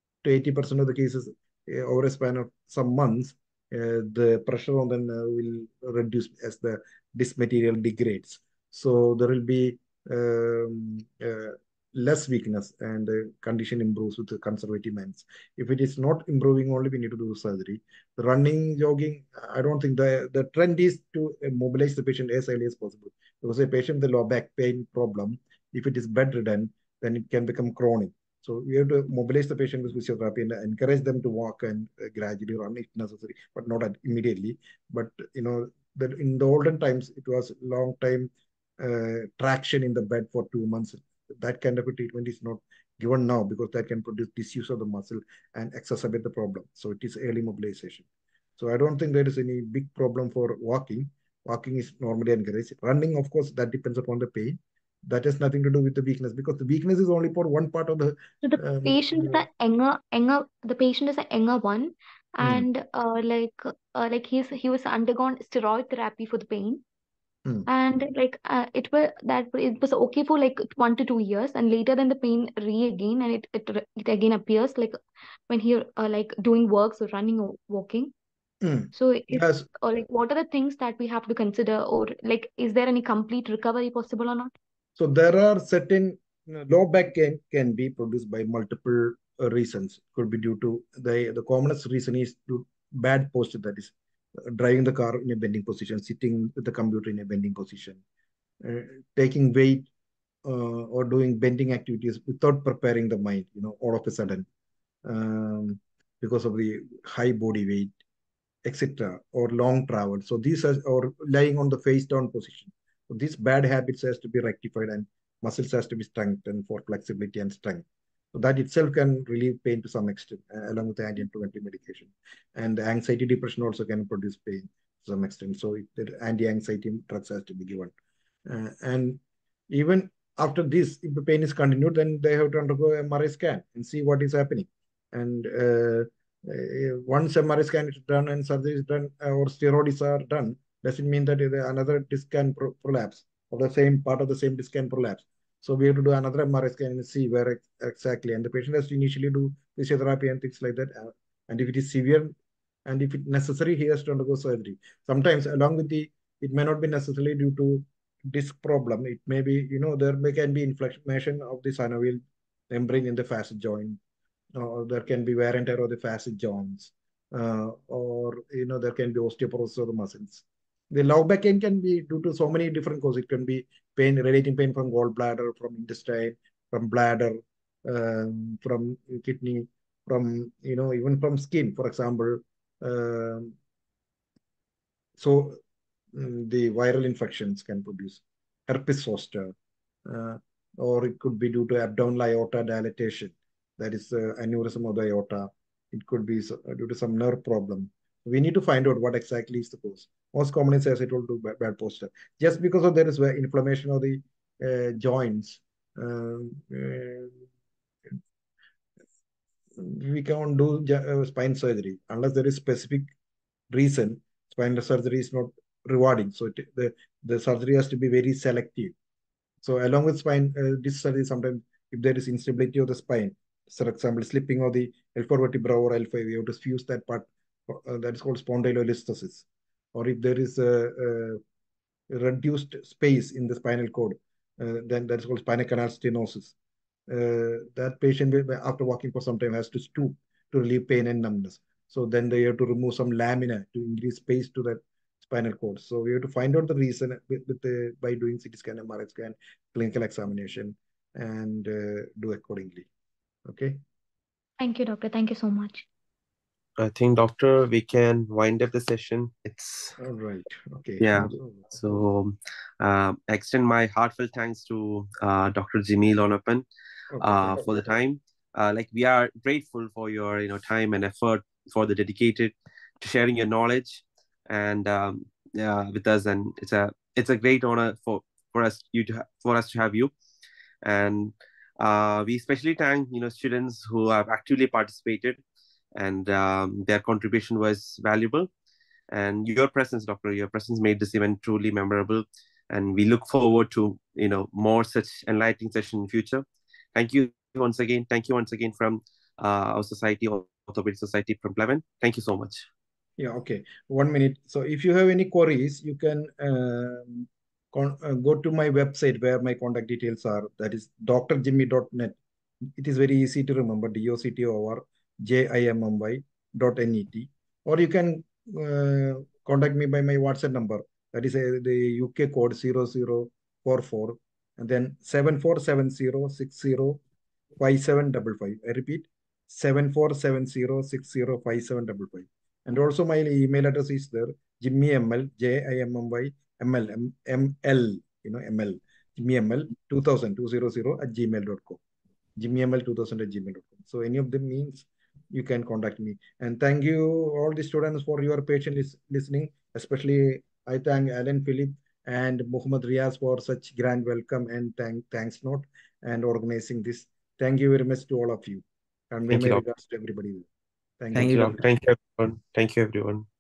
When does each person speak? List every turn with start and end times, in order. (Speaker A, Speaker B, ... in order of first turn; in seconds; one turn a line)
Speaker A: 0.2-48.0
Speaker A: 48.6-59.4
Speaker B: 58.4-66.8
Speaker B: 67.7-75.0
Speaker B: 75.5-78.1
Speaker A: 78.6-79.7
Speaker B: 78.9-84.5
Speaker A: 85.0-93.9
Speaker A: 94.5-98.0
Speaker A: 98.6-99.9
Speaker A: 100.5-104.5
Speaker A: 105.0-107.9
Speaker A: 108.7-127.9
Speaker A: 128.5-152.3
Speaker A: 152.9-164.0
Speaker A: 164.6-183.5
Speaker A: 185.2-185.6
Speaker A: 186.2-189.5
Speaker A: 190.1-207.4
Speaker A: 209.8-213.1
Speaker A: 213.7-218.9
Speaker A: 219.6-231.4
Speaker A: 232.1-236.5
Speaker A: 237.1-252.9
Speaker A: 253.5-253.8
Speaker B: 254.6-255.8
Speaker C: 256.8-260.0
Speaker A: 260.0-262.0
Speaker C: 261.0-266.7
Speaker A: 267.1-267.9
Speaker C: 267.2-280.1
Speaker C: 280.8-285.4
Speaker C: 286.0-288.5
Speaker C: 289.1-302.7
Speaker A: 303.2-312.2
Speaker A: 312.8-327.0
Speaker A: 327.6-341.8
Speaker A: 342.4-360.5
Speaker C: 359.3-359.6
Speaker A: 361.0-361.6
Speaker C: 361.1-363.3